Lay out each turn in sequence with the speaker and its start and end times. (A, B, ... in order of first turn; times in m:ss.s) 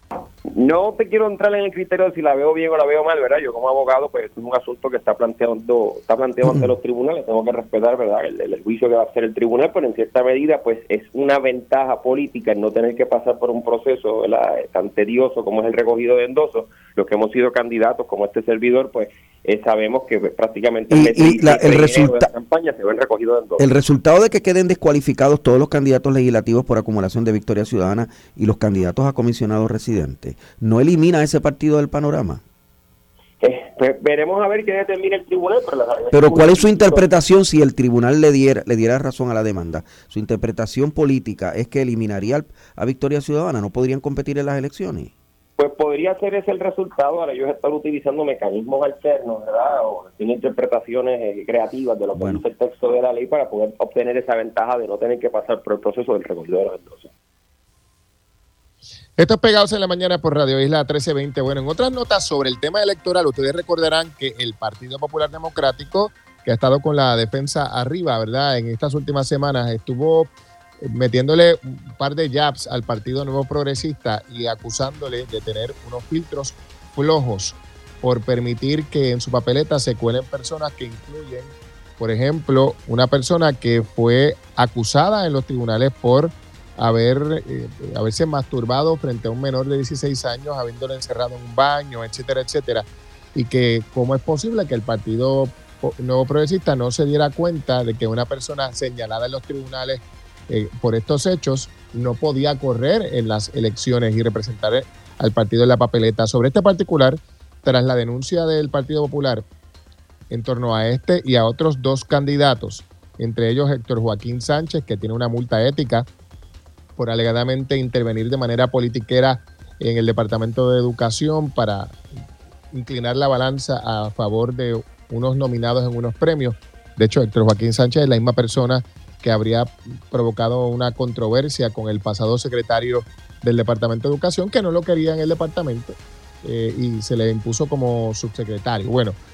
0:00.5-0:23.6 A
0:06.4-0:06.7 B
0:20.9-0:22.3 B
0:23.6-0:32.4 B
0:33.4-0:37.1 A
0:36.1-0:45.1 B
0:45.6-0:57.1 A
0:52.1-0:52.4 B
0:59.2-1:49.4 C
1:50.3-1:56.1 C
1:57.0-2:02.0 C
2:02.7-2:19.2 C